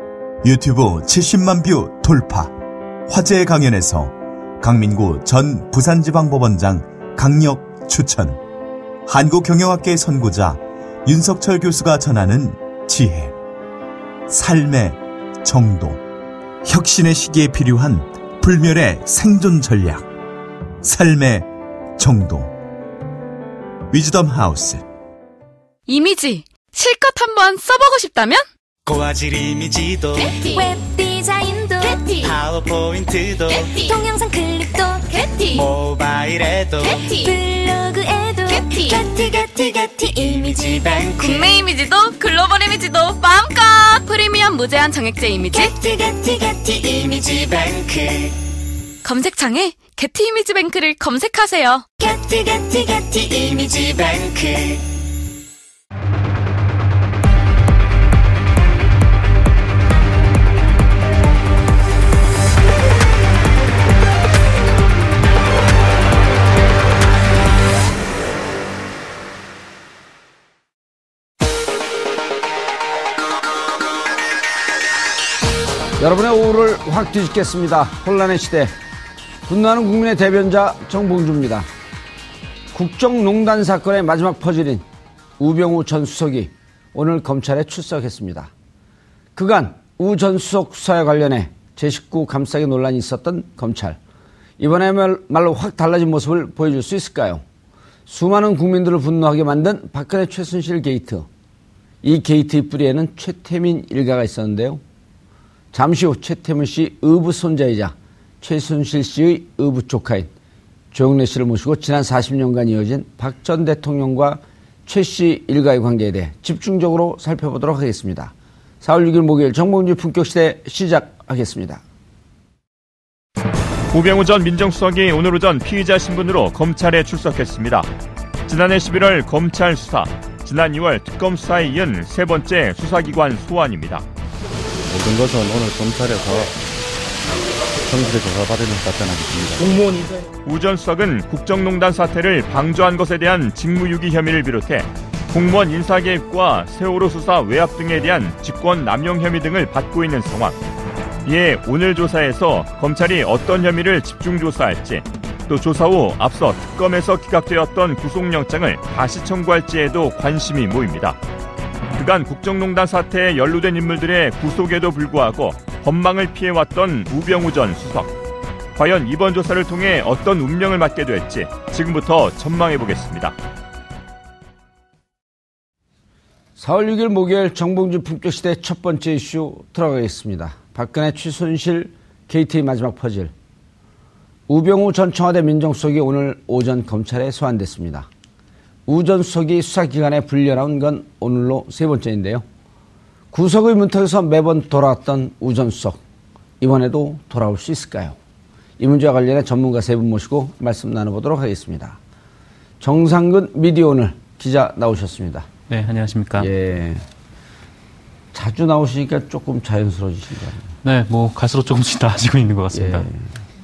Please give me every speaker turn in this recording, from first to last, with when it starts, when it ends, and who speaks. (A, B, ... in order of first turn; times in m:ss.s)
0:00.4-0:02.5 A
0:03.1-0:08.4 A
0:09.1-0:13.3 A
0:14.3-0:16.0 A
0:16.6-0:20.1 A
0:20.8-0:22.6 A
0:23.9-0:24.8 A
0:25.9-0:28.5 B
0:28.9-0:30.2 C
0:30.2-0:30.7 B
0:30.2-0:32.6 D
0:31.9-0:32.4 B
0:32.6-0:33.5 C
0:33.5-0:35.8 D
0:33.5-0:34.0 B
0:35.2-0:35.7 B
0:35.8-0:36.8 C
0:36.8-0:41.6 D
0:36.8-0:37.3 B
0:38.5-0:39.0 B
0:41.2-0:45.7 B
0:45.6-0:48.4 D
0:49.0-0:51.9 B
0:52.0-0:54.8 D
1:16.0-1:18.8 E
1:19.5-1:21.7 E
1:22.7-1:24.8 E
1:25.4-1:28.5 E
1:29.4-1:34.0 E
1:34.6-1:37.4 E
1:38.1-1:41.3 E
1:42.0-1:44.8 E
1:45.7-1:50.3 E
1:50.9-2:01.8 E
2:03.9-2:07.9 F
2:08.5-2:14.0 F
2:14.9-2:16.6 G
2:17.8-2:20.0 G
2:20.5-2:30.6 F
2:31.3-2:41.2 F
2:42.0-2:48.1 F
2:48.8-2:53.4 F
2:56.6-3:03.3 E
3:04.5-3:08.1 E
3:08.9-3:12.4 E
3:13.3-3:16.0 E
3:16.6-3:18.2 E
3:18.8-3:22.0 E
3:22.8-3:25.5 E
3:25.7-3:26.5 H
3:26.4-3:27.0 E
3:28.3-3:30.7 E
3:30.8-3:33.1 H
3:32.7-3:33.3 E